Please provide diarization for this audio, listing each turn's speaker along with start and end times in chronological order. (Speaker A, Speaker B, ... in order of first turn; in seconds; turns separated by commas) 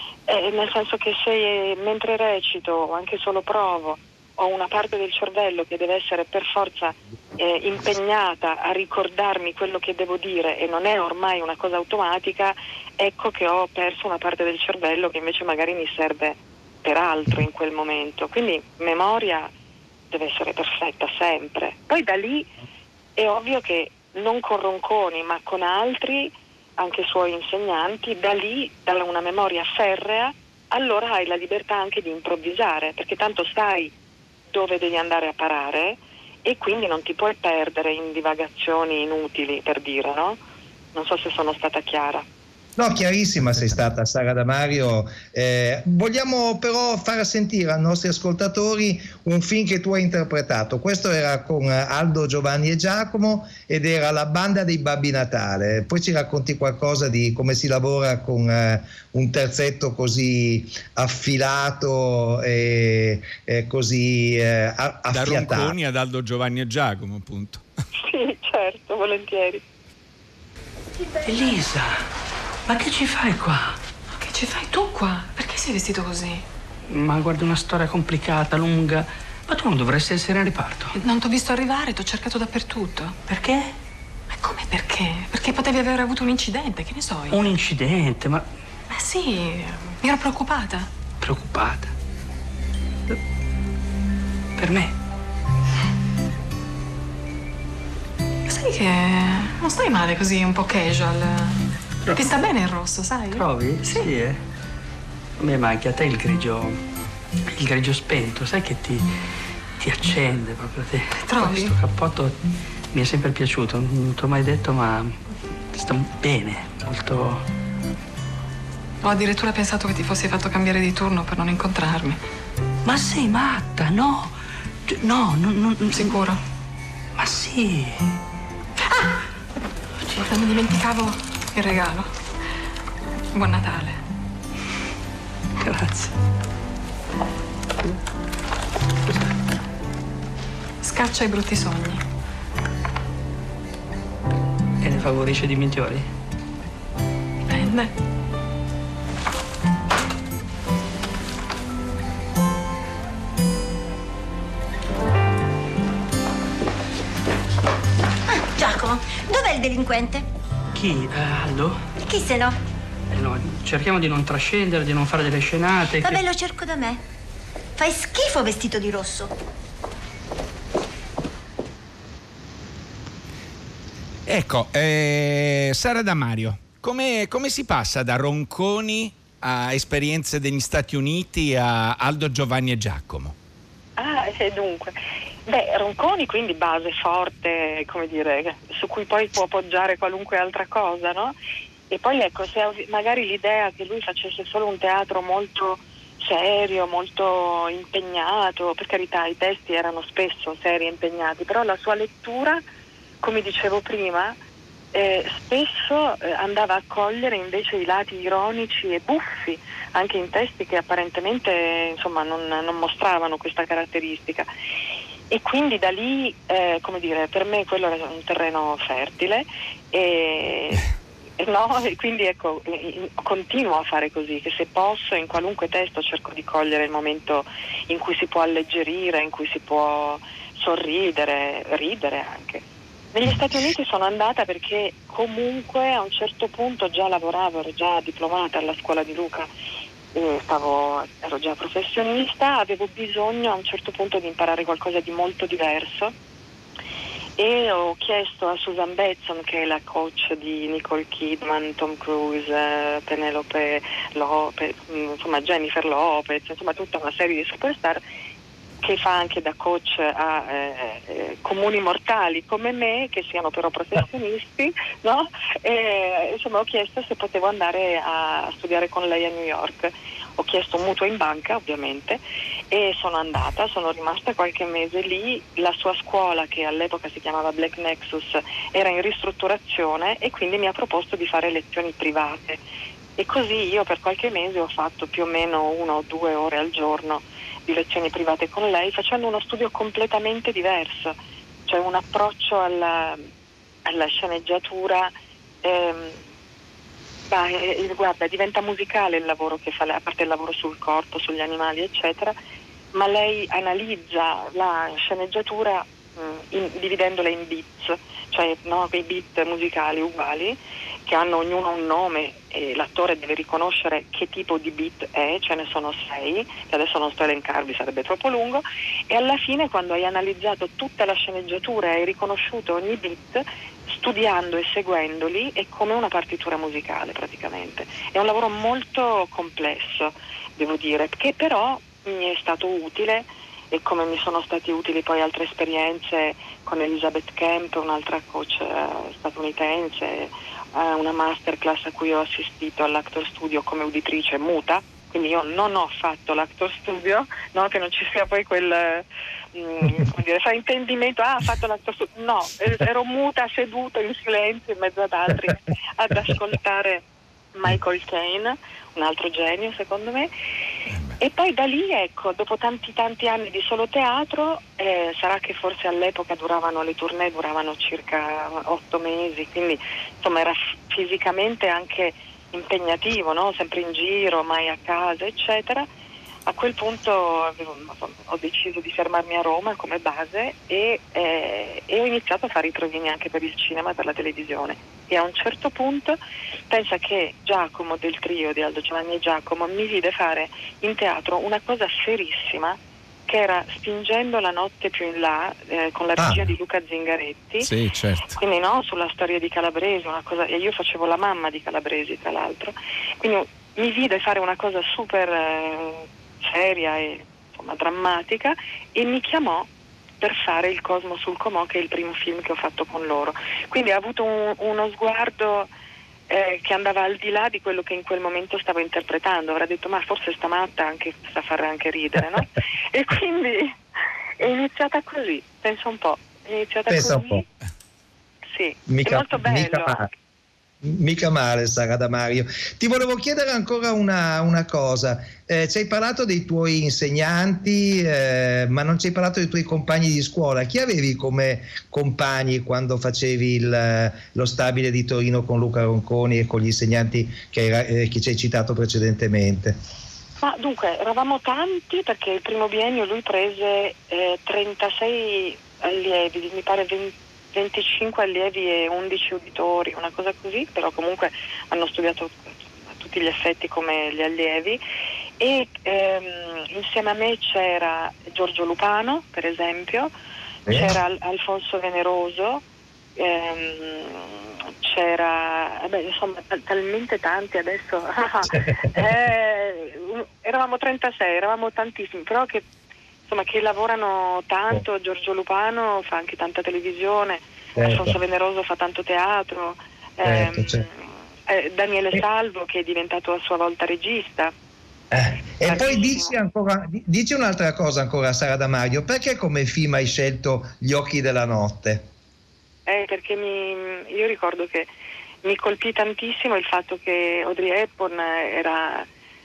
Speaker A: 0.3-19.5, Speaker A: 20.1-22.5, Speaker A: 23.2-33.9, Speaker A: 34.5-40.4, Speaker A: 40.9-42.3, Speaker B: 42.8-65.8, Speaker C: 65.1-67.6, Speaker A: 68.0-69.6, Speaker D: 71.2-72.0, Speaker D: 72.7-73.8, Speaker E: 74.2-76.4, Speaker D: 76.9-81.0, Speaker E: 81.0-83.3, Speaker D: 83.3-83.7, Speaker E: 84.3-87.4, Speaker D: 87.3-88.5, Speaker E: 88.9-90.9, Speaker D: 91.2-91.9, Speaker D: 94.6-94.9, Speaker E: 98.5-101.6, Speaker E: 102.2-104.1, Speaker D: 103.3-104.4, Speaker D: 105.4-106.8, Speaker D: 107.5-109.1, Speaker D: 109.8-112.4, Speaker E: 111.3-111.7, Speaker D: 112.9-117.5, Speaker E: 119.0-122.2, Speaker D: 122.8-124.4, Speaker D: 124.9-126.2, Speaker E: 126.0-126.4, Speaker D: 127.2-128.2, Speaker E: 130.2-132.1, Speaker E: 133.3-134.0, Speaker D: 135.6-136.2, Speaker E: 140.8-142.0, Speaker D: 144.8-146.1, Speaker E: 147.5-147.9, Speaker F: 158.3-160.2, Speaker D: 160.7-161.9, Speaker F: 162.1-162.6, Speaker D: 163.1-166.2, Speaker F: 166.0-167.0, Speaker F: 167.8-169.3, Speaker C: 174.3-183.3, Speaker A: 184.0-191.3, Speaker A: 191.9-202.6, Speaker A: 203.2-204.4, Speaker A: 204.9-214.5, Speaker A: 215.3-220.9, Speaker A: 221.4-232.6, Speaker A: 233.1-239.5, Speaker A: 240.1-246.1, Speaker A: 247.4-258.0, Speaker A: 258.8-282.6, Speaker A: 283.2-293.3, Speaker A: 293.9-296.2, Speaker A: 297.3-302.4, Speaker A: 302.9-357.0, Speaker A: 357.6-360.3, Speaker A: 361.2-375.9, Speaker A: 376.5-397.7, Speaker B: 396.2-396.4, Speaker C: 397.6-398.4, Speaker A: 398.3-409.7, Speaker A: 410.2-415.7, Speaker A: 416.3-423.7, Speaker A: 424.4-427.4, Speaker B: 426.9-427.4, Speaker A: 428.5-430.1, Speaker B: 428.9-430.1, Speaker B: 430.8-449.8, Speaker A: 450.4-464.8, Speaker A: 465.4-470.1, Speaker B: 470.7-470.9, Speaker A: 470.7-472.6, Speaker A: 473.2-482.7, Speaker B: 478.5-478.9, Speaker A: 483.3-494.5, Speaker B: 487.8-488.1, Speaker B: 490.2-490.9, Speaker B: 495.1-502.1, Speaker A: 495.6-496.3, Speaker A: 502.9-504.9, Speaker A: 505.4-509.1